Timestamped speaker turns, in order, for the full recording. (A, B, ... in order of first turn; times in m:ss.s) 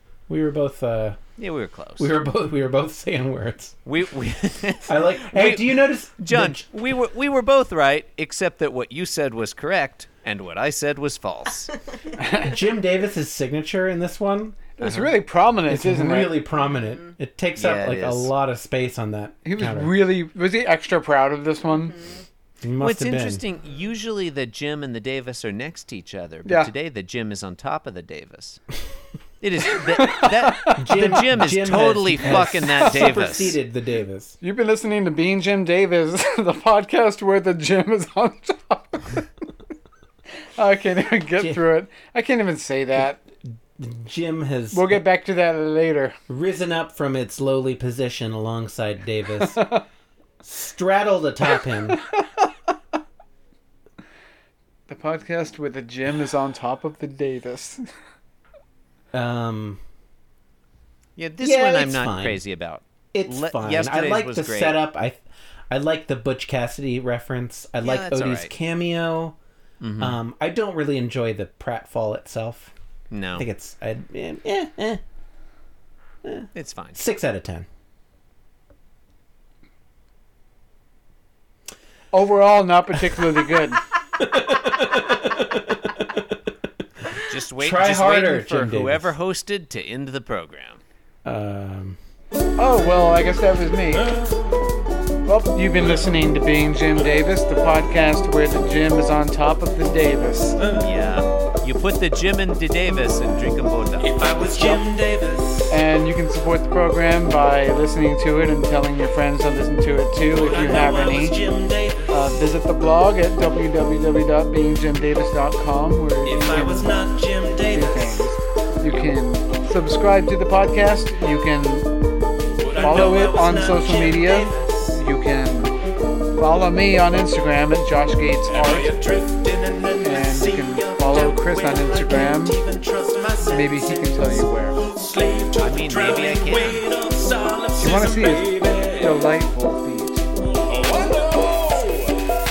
0:00.3-0:01.2 A
0:01.4-0:02.1 B
0:02.0-0:03.8 A
0:03.9-0:11.7 B
0:04.9-0:06.7 A
0:12.2-0:12.6 C
0:12.3-0:15.1 A
0:14.8-0:16.4 C
0:15.7-0:19.9 A
0:17.6-0:18.3 B
0:19.4-0:22.2 C
0:22.6-0:23.4 A
0:22.8-0:28.6 B
0:26.4-0:26.7 C
0:29.4-0:33.6 B
0:30.1-0:31.0 C
0:30.8-0:34.4 A
0:32.8-0:33.2 C
0:34.4-0:39.2 C
0:40.6-0:43.2 C
0:43.8-0:45.0 A
0:44.7-0:46.2 C
0:46.3-0:49.8 A
0:49.4-0:49.8 C
0:50.4-0:52.0 A
0:51.7-0:52.5 C
0:54.9-0:57.8 C
0:59.1-0:59.8 A
1:01.2-1:04.8 B
1:01.4-1:02.4 A
1:03.1-1:09.4 A
1:07.8-1:08.5 B
1:09.8-1:10.2 B
1:10.0-1:12.7 A
1:13.1-1:13.5 B
1:13.4-1:15.0 A
1:16.2-1:17.7 A
1:16.5-1:17.0 B
1:22.1-1:23.8 C
1:24.2-1:26.2 A
1:27.3-1:30.8 B
1:27.6-1:29.1 A
1:31.2-1:32.0 A
1:32.6-1:34.2 C
1:35.3-1:40.6 C
1:40.8-1:44.1 B
1:44.1-1:45.7 D
1:44.5-1:44.9 C
1:45.7-1:51.5 C
1:50.4-1:52.2 D
1:52.1-1:57.0 C
1:56.3-1:58.2 D
1:57.7-2:01.9 C
2:02.7-2:04.7 D
2:02.8-2:05.7 C
2:06.4-2:09.0 C
2:08.6-2:14.1 D
2:10.0-2:12.6 C
2:13.4-2:14.9 C
2:15.0-2:18.9 D
2:15.6-2:17.0 B
2:17.8-2:20.3 C
2:20.7-2:22.1 D